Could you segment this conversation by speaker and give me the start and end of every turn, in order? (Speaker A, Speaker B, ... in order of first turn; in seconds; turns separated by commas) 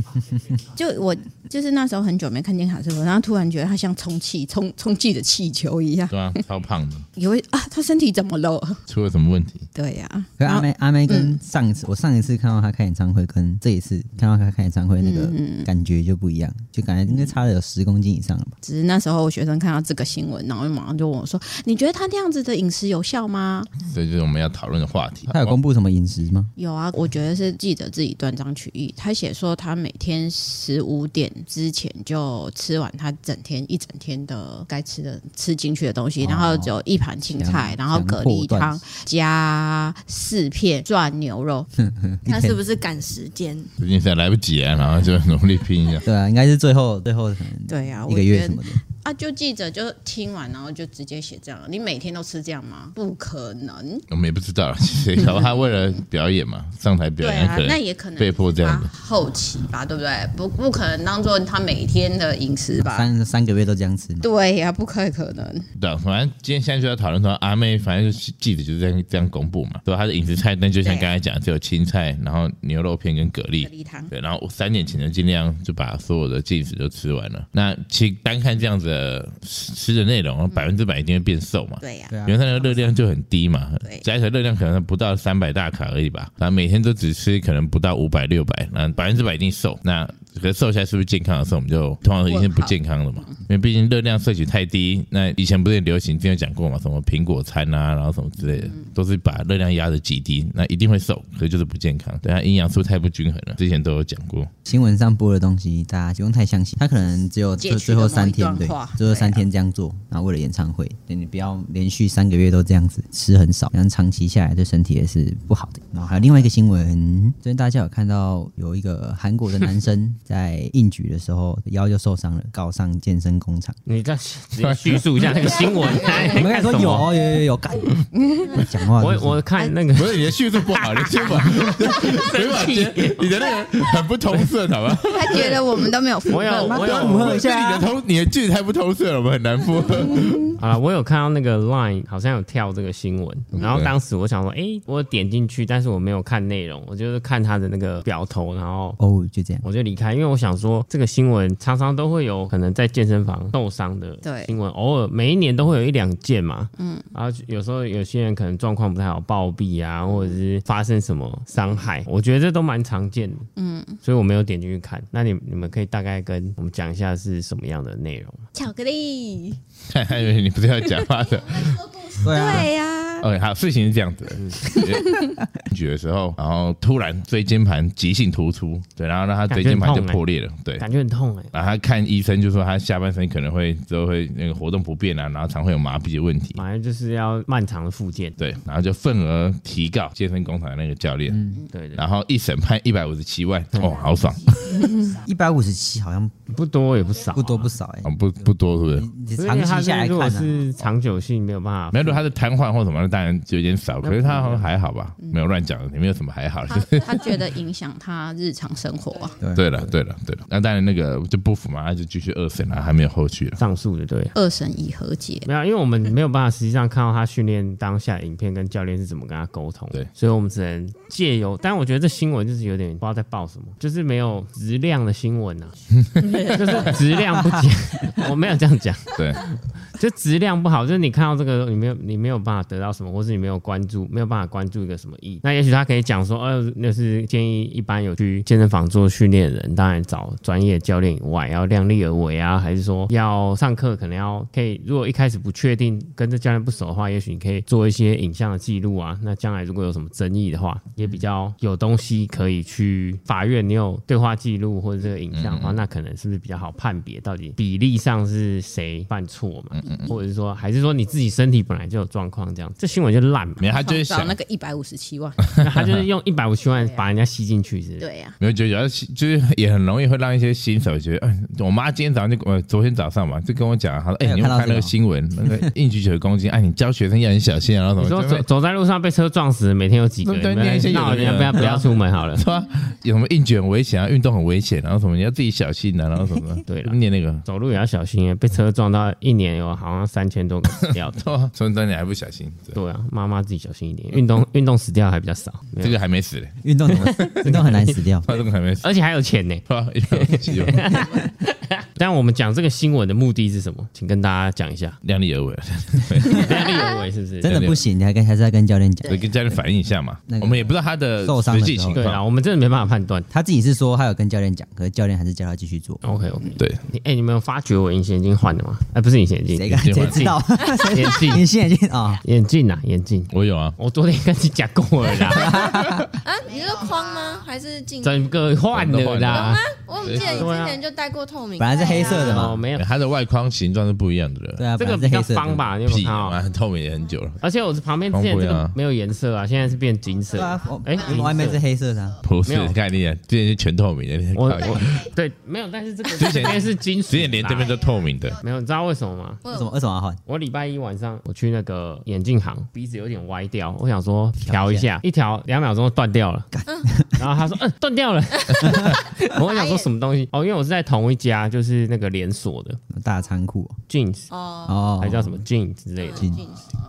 Speaker A: 0.1-0.4, Speaker B: 0.7-6.4, Speaker C: 6.1-7.1, Speaker B: 7.2-8.8, Speaker C: 8.9-9.7, Speaker B: 9.7-11.4, Speaker A: 10.4-18.6, Speaker B: 15.0-15.7, Speaker B: 17.1-17.4, Speaker B: 18.6-23.7, Speaker C: 23.8-25.6, Speaker A: 25.3-26.5, Speaker B: 26.6-41.7, Speaker A: 36.2-38.8, Speaker A: 41.8-42.6, Speaker D: 42.2-43.7, Speaker C: 43.8-46.1, Speaker A: 46.0-48.8, Speaker B: 47.7-54.0, Speaker C: 54.1-58.9, Speaker B: 55.2-55.5, Speaker B: 57.2-63.1, Speaker A: 62.8-64.3, Speaker B: 64.2-65.7, Speaker C: 65.8-104.5, Speaker B: 70.8-71.1, Speaker B: 73.6-74.1, Speaker B: 81.8-82.1, Speaker A: 82.1-82.8, Speaker B: 92.2-93.4, Speaker B: 98.5-98.9, Speaker A: 104.6-123.8, Speaker B: 107.6-109.4, Speaker E: 123.8-127.1, Speaker C: 124.6-125.4, Speaker A: 126.3-129.4, Speaker B: 128.1-128.7, Speaker E: 129.0-130.2, Speaker C: 129.9-135.9, Speaker E: 131.3-133.3, Speaker B: 135.1-137.0, Speaker E: 136.3-137.4, Speaker A: 136.6-137.9, Speaker C: 136.6-140.6, Speaker B: 140.0-140.5, Speaker E: 140.6-149.0, Speaker C: 143.5-143.9, Speaker A: 149.0-149.6, Speaker E: 149.6-163.5, Speaker B: 154.2-154.5, Speaker B: 156.8-157.0, Speaker B: 163.6-164.0, Speaker E: 164.0-168.4, Speaker B: 168.5-169.6, Speaker C: 169.9-172.7, Speaker A: 172.2-172.7, Speaker B: 172.3-173.2, Speaker D: 172.4-172.8, Speaker C: 173.2-180.8, Speaker B: 174.7-175.3, Speaker E: 179.5-180.2, Speaker E: 180.8-181.5, Speaker C: 181.5-186.6, Speaker E: 186.5-188.4, Speaker C: 188.4-191.4, Speaker A: 191.3-191.6, Speaker E: 191.7-192.0, Speaker C: 191.9-194.7, Speaker E: 193.7-194.0, Speaker B: 194.7-195.2, Speaker A: 195.1-196.3, Speaker E: 196.5-197.7, Speaker A: 197.3-198.1, Speaker C: 198.0-199.1, Speaker A: 198.9-200.6, Speaker E: 199.3-202.2, Speaker C: 201.9-207.3, Speaker E: 204.0-204.7, Speaker B: 206.7-209.4, Speaker A: 209.4-209.7, Speaker C: 209.5-213.6, Speaker E: 213.6-214.3, Speaker B: 214.3-215.5, Speaker E: 215.4-263.7, Speaker B: 226.2-226.8, Speaker C: 229.2-229.4, Speaker C: 255.3-255.8, Speaker C: 259.7-260.1, Speaker B: 259.8-260.2, Speaker C: 263.6-264.4, Speaker B: 263.7-265.4, Speaker C: 265.6-266.0, Speaker E: 265.6-268.1, Speaker B: 266.7-267.0, Speaker B: 268.0-268.4, Speaker C: 268.4-278.4, Speaker A: 274.2-274.9, Speaker E: 278.0-282.4, Speaker C: 280.2-287.4, Speaker E: 286.7-291.2, Speaker C: 291.0-292.8, Speaker E: 292.7-296.0, Speaker C: 295.8-297.6, Speaker A: 296.6-298.2, Speaker E: 297.2-305.0, Speaker C: 298.2-298.9, Speaker C: 299.7-301.1, Speaker C: 305.0-306.6, Speaker E: 306.3-307.6, Speaker A: 307.4-309.2, Speaker C: 307.4-307.8, Speaker C: 309.1-312.2, Speaker A: 310.3-312.1, Speaker E: 311.9-313.3, Speaker A: 313.3-316.0, Speaker E: 316.0-320.4, Speaker A: 319.5-322.2, Speaker C: 319.8-320.3, Speaker E: 320.9-321.4, Speaker E: 322.2-325.7, Speaker C: 323.3-323.7, Speaker A: 325.3-326.1, Speaker D: 326.2-328.3, Speaker E: 328.0-329.6, Speaker C: 328.7-330.5, Speaker D: 329.3-332.5, Speaker E: 330.1-330.8, Speaker A: 331.6-332.6, Speaker E: 331.9-332.9, Speaker C: 332.4-334.6, Speaker A: 334.6-335.7, Speaker E: 334.8-336.4, Speaker C: 335.9-337.4, Speaker E: 337.4-341.6, Speaker C: 338.1-338.8, Speaker A: 340.3-342.2, Speaker C: 342.2-345.1, Speaker E: 342.4-342.8, Speaker E: 344.3-347.8, Speaker C: 346.2-348.4, Speaker E: 348.4-349.4, Speaker D: 349.4-349.7, Speaker A: 349.5-350.2, Speaker E: 350.2-356.5, Speaker A: 354.4-354.9, Speaker A: 356.5-357.1, Speaker E: 357.2-362.8, Speaker D: 358.5-359.9, Speaker A: 362.9-363.8, Speaker E: 363.9-364.3, Speaker D: 364.3-364.9, Speaker A: 364.7-365.4, Speaker E: 365.0-366.4, Speaker D: 366.0-366.7, Speaker A: 366.1-366.4